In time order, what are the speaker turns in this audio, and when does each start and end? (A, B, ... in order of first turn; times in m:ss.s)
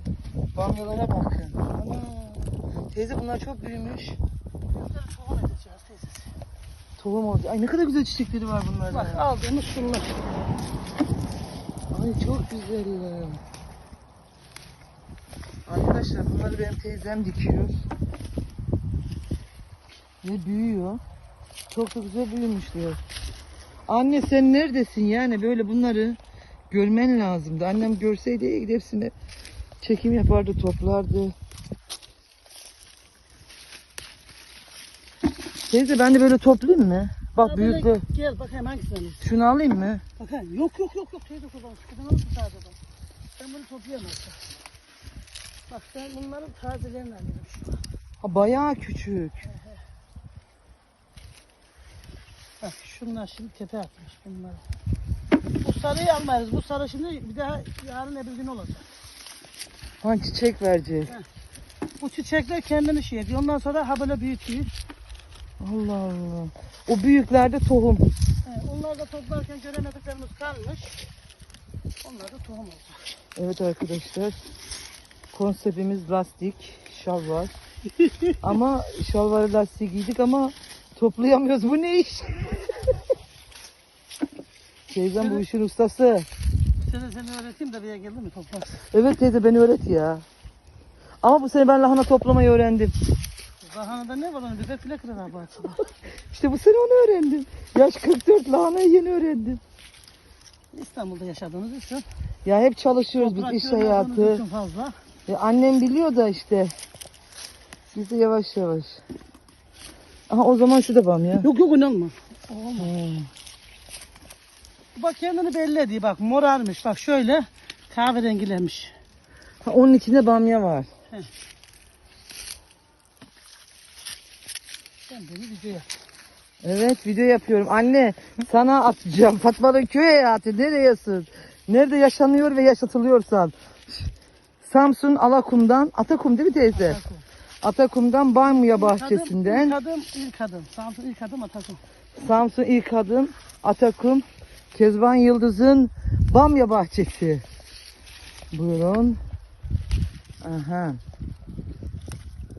0:00.5-0:01.6 A
0:01.7-0:02.5 B
0:02.9-0:04.2 A
0:04.7-0:06.3 B
0:07.0-0:09.2 A
0:08.9-0:10.2 B
0:11.9-0:13.4 A
0:15.7-0:17.7 A
0:20.2-0:21.0 A
0:21.7-0:23.0 A
0:23.9-0:26.2 A
0:26.7-0:29.1 A
0:29.8-0:31.3 A
0:35.7-0:38.0 A
0:37.4-0:39.2 B
0:39.2-0:40.0 A
0:40.2-0:42.8 B
0:43.4-0:44.4 B
0:45.7-0:47.8 B
0:48.2-0:49.4 A
0:49.4-0:49.8 B
0:52.6-0:54.6 B
0:55.6-0:58.9 B
1:00.0-1:01.1 A
1:02.0-1:04.7 B
1:05.6-1:08.0 A
1:08.4-1:11.0 B
1:12.0-1:13.0 B
1:13.4-1:14.4 A
1:15.3-1:17.5 A
1:18.0-1:18.3 B
1:18.4-1:22.8 A
1:24.9-1:26.2 A
1:25.2-1:25.4 B
1:26.8-1:28.8 B
1:28.9-1:30.2 A
1:31.2-1:32.9 A
1:33.6-1:35.9 B
1:36.3-1:39.6 A
1:40.7-1:42.0 B
1:42.4-1:44.4 A
1:43.2-1:44.9 B
1:45.3-1:46.7 A
1:47.9-1:49.0 A
1:50.3-1:51.5 A
1:51.4-1:52.9 B
1:52.8-1:53.3 A
1:55.0-1:58.9 B
1:59.6-2:00.9 A
2:05.1-2:05.9 B
2:06.6-2:17.0 A
2:16.7-2:17.2 B
2:17.6-2:19.8 A
2:18.5-2:21.8 B
2:22.2-2:27.4 A
2:28.5-2:29.2 A
2:30.4-2:31.0 A